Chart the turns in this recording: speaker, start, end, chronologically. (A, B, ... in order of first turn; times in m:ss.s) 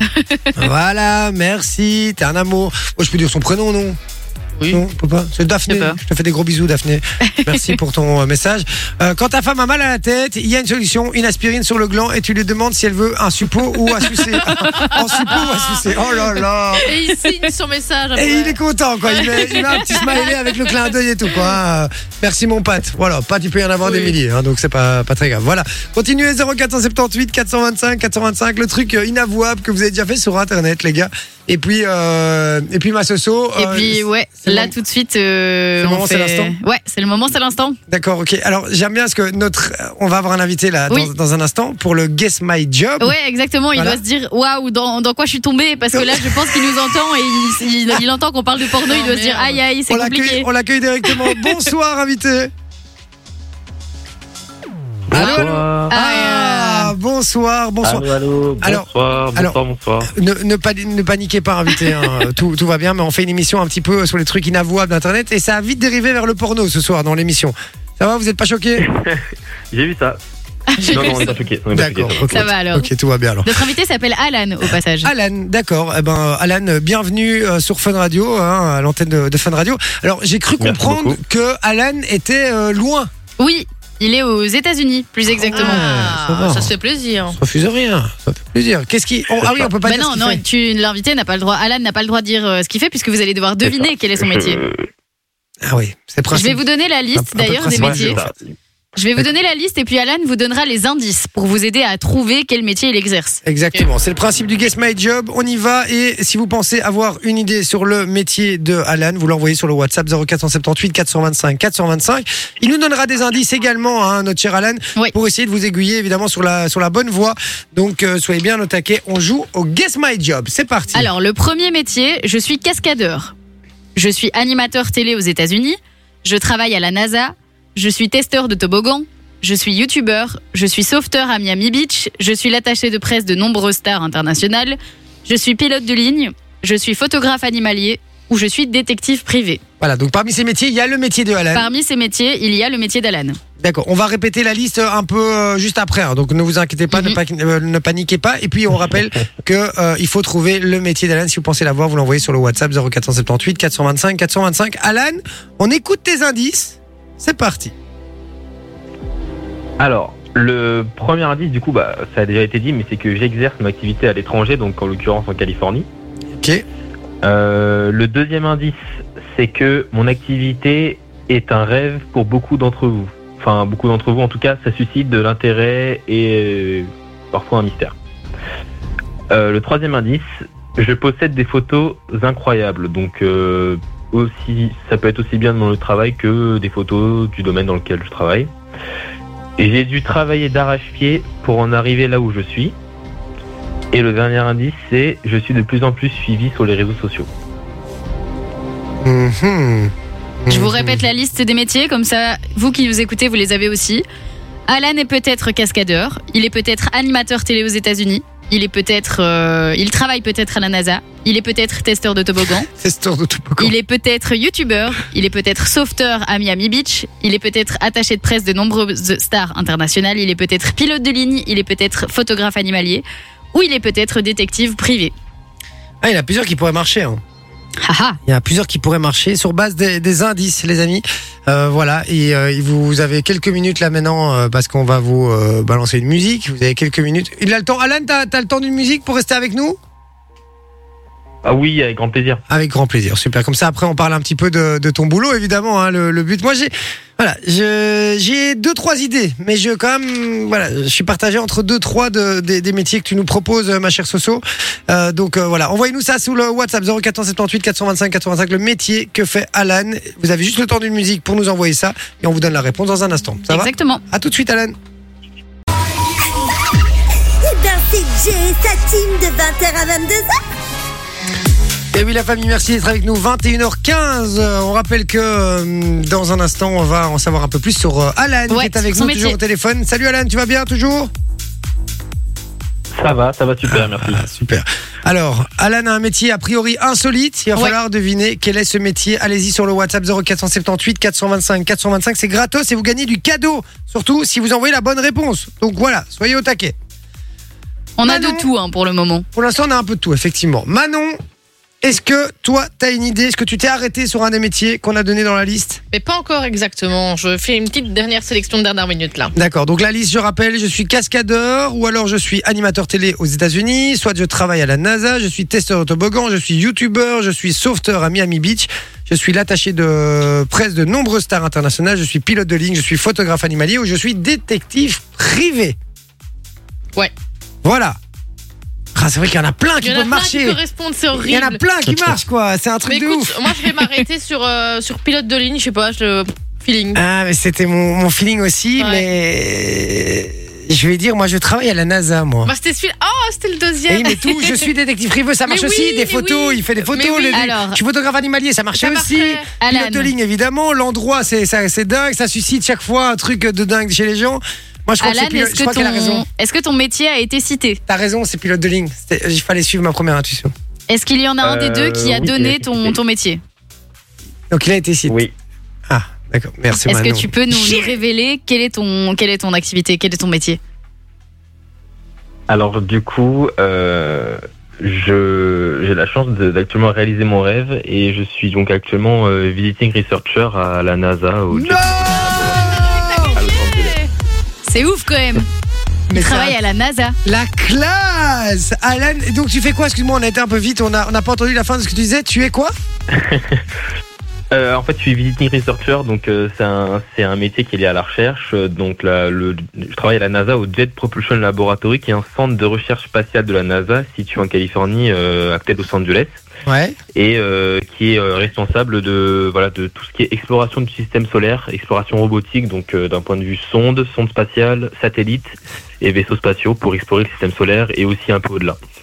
0:00.1-0:00.5 A
0:00.6-0:04.0 B
0:04.6-0:04.8 C
0:04.7-0:16.9 B
0:07.2-0:07.7 A
0:14.6-0:15.0 A
0:14.7-0:15.5 C
0:16.8-0:18.6 C
0:18.1-0:34.7 B
0:19.3-0:19.5 C
0:33.6-0:37.8 A
0:35.8-0:36.6 B
0:37.9-0:43.2 B
0:43.0-0:50.5 A
0:43.7-0:44.0 B
0:45.9-0:46.7 B
0:48.9-0:49.6 C
0:49.9-0:52.5 B
0:55.1-0:58.0 B
0:55.1-0:55.9 D
0:55.2-0:56.9 A
0:57.8-1:00.1 D
0:58.6-1:08.8 B
1:08.8-1:10.2 D
1:10.7-1:11.2 A
1:10.8-1:12.5 D
1:11.7-1:13.6 B
1:12.3-1:12.9 A
1:13.4-1:15.1 A
1:15.0-1:23.1 B
1:20.6-1:21.2 D
1:23.4-1:25.9 A
1:25.4-1:26.7 B
1:25.5-1:27.4 C
1:27.3-1:30.4 B
1:29.4-1:29.7 D
1:29.8-1:34.6 A
1:33.6-1:34.8 D
1:35.6-1:38.3 B
1:36.3-1:38.2 A
1:37.7-1:38.3 D
1:39.0-1:43.4 A
1:43.4-2:01.1 B
2:00.9-2:03.3 A
2:04.0-2:19.6 A
2:19.8-2:21.7 B
2:21.5-2:23.4 A
2:23.6-2:37.7 B
2:26.9-2:27.2 A
2:39.8-2:45.9 D
2:46.4-2:46.6 B
2:47.2-2:48.8 D
2:49.3-2:57.9 D
2:59.3-3:00.2 D
3:00.8-3:08.5 D
3:09.6-3:12.7 D
3:13.9-3:17.3 D
3:19.0-3:21.0 B
3:20.5-3:24.0 A
3:24.7-3:32.7 A
3:32.8-3:33.7 B
3:33.6-3:45.1 A
3:46.0-3:47.2 B
3:47.8-3:48.2 A
3:48.2-3:59.8 B
4:01.4-4:02.4 D
4:02.5-4:24.7 B
4:23.5-4:24.0 A
4:27.4-4:30.3 E
4:31.9-4:41.1 B
4:38.5-4:39.4 A
4:42.9-4:44.2 D
4:43.6-4:56.7 B
4:58.0-4:59.2 A
4:58.0-4:58.5 B
4:59.3-5:01.2 B
5:01.8-5:05.8 B
5:05.9-5:09.3 C
5:09.3-5:25.8 B
5:27.6-5:28.0 B
5:28.9-5:30.6 B
5:29.8-5:31.6 C
5:31.1-5:33.4 B
5:32.9-5:37.0 C
5:37.0-5:42.5 B
5:38.8-5:39.0 C
5:42.4-5:44.7 C
5:43.9-5:56.2 B
5:45.4-5:47.5 C
5:47.3-5:47.8 A
5:48.8-5:49.5 C
5:49.6-5:50.1 A
5:55.0-5:57.8 A
5:57.9-6:00.5 B
6:00.9-6:03.4 A
6:01.4-6:03.0 D
6:04.5-6:05.2 B
6:05.1-6:05.3 D
6:05.9-6:07.8 B
6:06.7-6:10.6 A
6:12.5-6:24.0 D
6:21.5-6:23.4 B
6:23.4-6:24.0 C
6:24.7-6:25.4 A
6:26.1-6:26.6 B
6:26.1-6:27.2 A
6:27.2-6:32.7 B
6:33.1-6:33.6 D
6:34.5-6:46.4 D
6:46.6-6:47.0 B
6:47.1-6:58.8 D